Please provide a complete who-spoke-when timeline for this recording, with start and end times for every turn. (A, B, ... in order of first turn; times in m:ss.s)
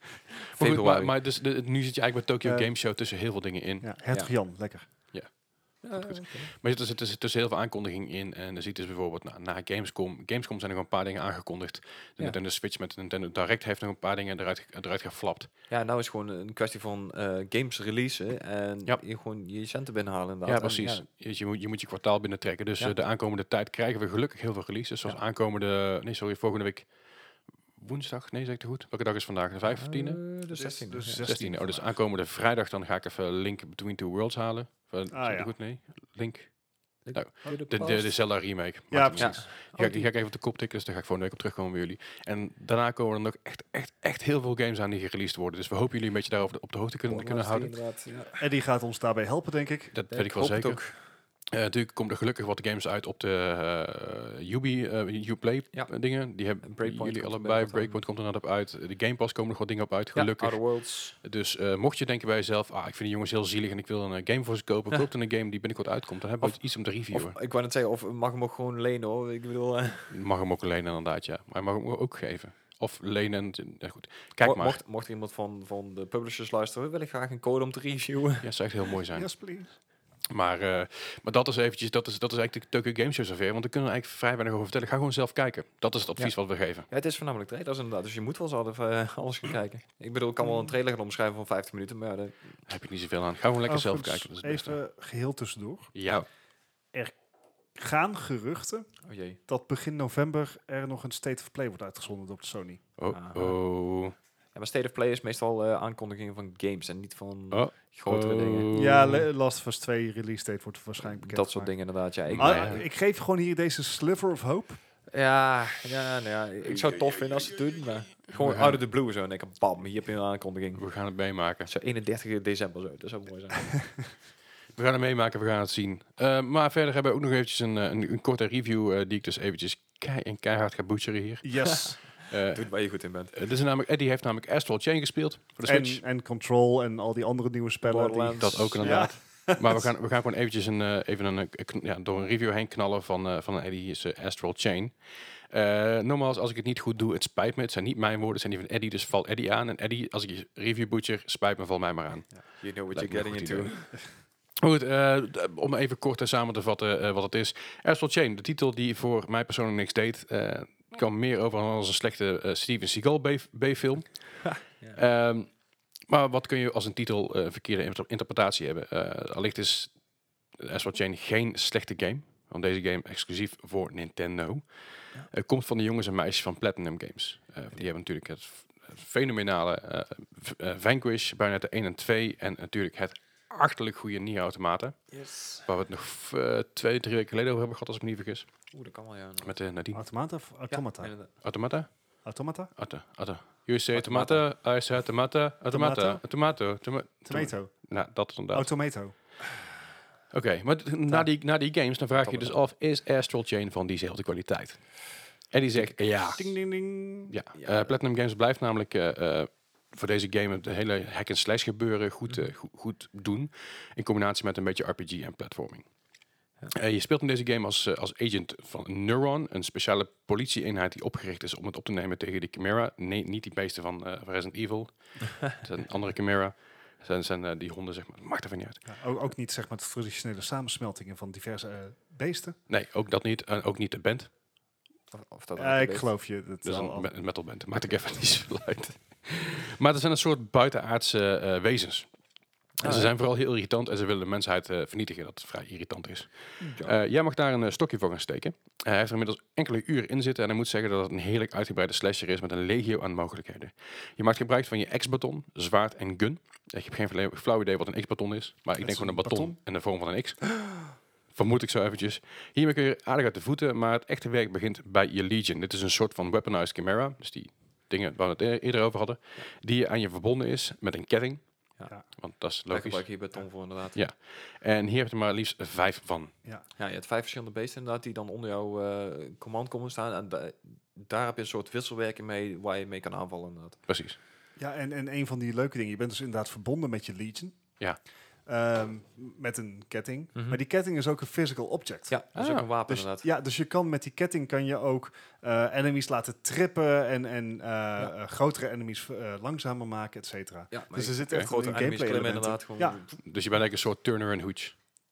0:00.6-0:01.1 A
0:00.6-0:03.9 B
0:02.4-0:02.7 C
0:03.8-0:04.9 C
0:05.1-0:15.5 B
0:05.8-0:06.5 A
0:15.7-0:21.0 A
0:20.4-0:26.9 B
0:27.8-0:30.2 B
0:29.6-0:31.2 A
0:30.5-0:32.0 C
0:31.2-0:47.7 B
0:35.1-0:35.5 C
0:37.0-0:38.2 A
0:38.9-0:39.4 C
0:39.2-0:40.1 A
0:47.1-0:48.4 A
0:48.4-0:49.9 C
0:49.9-0:50.9 B
0:50.1-0:51.0 A
0:51.5-1:07.4 B
0:56.6-0:58.0 A
1:00.1-1:01.1 A
1:06.4-1:10.1 A
1:10.1-1:14.8 B
1:14.4-1:18.5 A
1:18.4-1:19.3 B
1:19.1-1:19.7 C
1:20.3-1:26.9 B
1:26.9-1:32.6 A
1:32.7-1:34.8 B
1:33.6-1:35.9 C
1:35.9-1:36.2 B
1:37.7-1:38.9 C
1:39.0-1:39.4 A
1:39.4-1:42.8 C
1:43.0-1:44.1 B
1:43.1-1:43.6 A
1:44.5-1:48.7 A
1:47.5-1:49.3 B
1:48.7-1:54.8 C
1:51.0-1:52.8 A
1:52.3-1:52.8 B
1:55.1-2:00.8 A
1:58.4-1:58.8 B
2:00.8-2:01.7 B
2:01.6-2:03.8 A
2:04.7-2:12.7 B
2:11.4-2:12.0 C
2:11.7-2:12.0 A
2:12.5-2:13.3 A
2:13.3-2:16.0 B
2:15.6-2:19.9 C
2:17.8-2:19.1 A
2:18.4-2:25.0 B
2:25.5-2:34.0 B
2:32.6-2:33.9 A
2:34.6-2:45.5 B
2:44.5-2:45.0 A
2:46.1-2:49.9 B
2:50.6-2:54.7 B
2:55.3-3:05.1 B
3:05.1-3:05.6 A
3:05.6-3:08.5 B
3:08.7-3:09.5 A
3:09.4-3:10.0 B
3:09.9-3:11.1 C
3:10.7-3:11.3 A
3:11.4-3:12.1 B
3:12.2-3:12.7 C
3:12.8-3:18.7 B
3:13.9-3:14.4 A
3:15.7-3:16.2 C
3:17.2-3:17.9 C
3:18.5-3:19.1 C
3:20.3-3:26.5 B
3:22.2-3:22.6 A
3:26.2-3:27.3 C
3:27.3-3:35.8 B
3:27.5-3:27.9 A
3:36.7-3:48.8 B
3:48.9-3:52.6 C
3:52.7-3:54.3 B
3:55.1-3:56.1 A
3:55.6-3:57.1 C
3:56.6-4:02.1 B
4:02.8-4:03.1 A
4:02.8-4:20.6 B
4:06.6-4:06.9 A
4:18.8-4:19.6 C
4:21.3-4:31.4 B
4:32.1-4:33.1 B
4:32.7-4:34.0 A
4:33.9-4:36.3 B
4:36.8-4:43.8 A
4:43.9-4:44.2 B
4:44.6-4:47.6 C
4:48.4-4:52.1 C
4:50.3-4:50.6 A
4:52.1-4:53.3 A
4:52.3-4:52.7 B
4:52.9-5:03.0 C
5:00.7-5:03.1 A
5:03.2-5:04.7 B